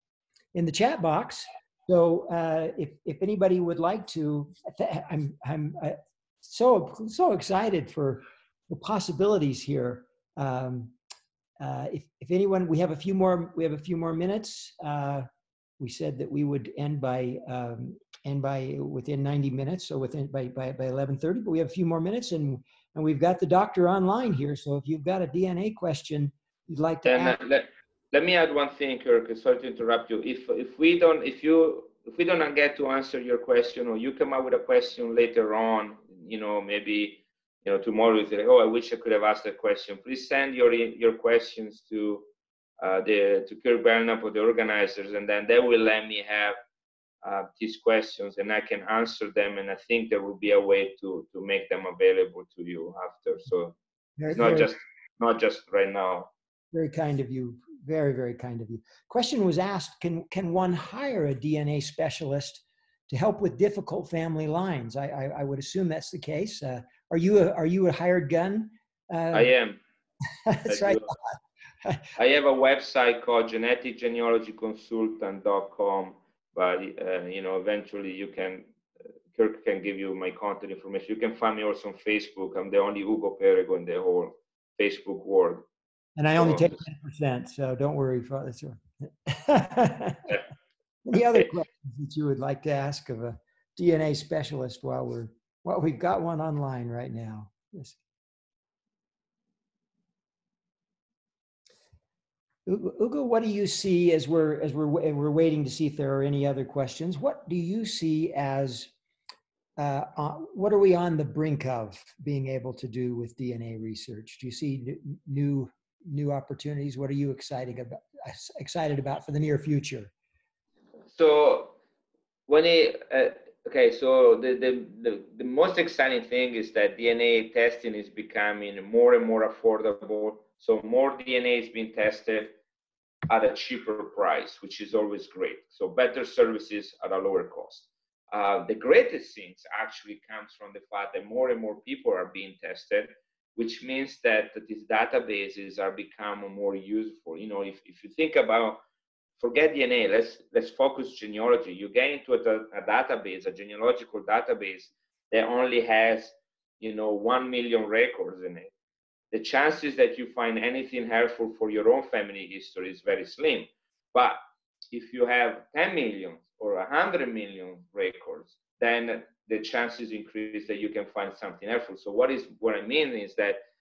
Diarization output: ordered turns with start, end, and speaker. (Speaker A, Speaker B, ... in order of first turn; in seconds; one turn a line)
Speaker A: 0.5-10.9
Speaker A: 11.6-15.3
Speaker A: 15.8-27.4
Speaker B: 27.1-42.3
Speaker B: 42.8-46.6
Speaker B: 47.2-53.8
Speaker A: 54.2-54.7
Speaker B: 54.3-56.3
Speaker A: 56.7-69.5
Speaker B: 69.3-69.8
Speaker A: 70.5-71.2
Speaker B: 70.7-71.1
Speaker B: 72.2-78.7
Speaker B: 79.3-85.7
Speaker A: 86.2-90.4
Speaker B: 86.3-86.8
Speaker A: 91.1-98.0
Speaker A: 102.7-108.9
Speaker A: 109.8-120.1
Speaker B: 121.1-121.8
Speaker B: 122.5-132.6
Speaker B: 133.3-148.8
Speaker B: 149.4-158.7
Speaker B: 159.3-164.4
Speaker B: 164.9-173.6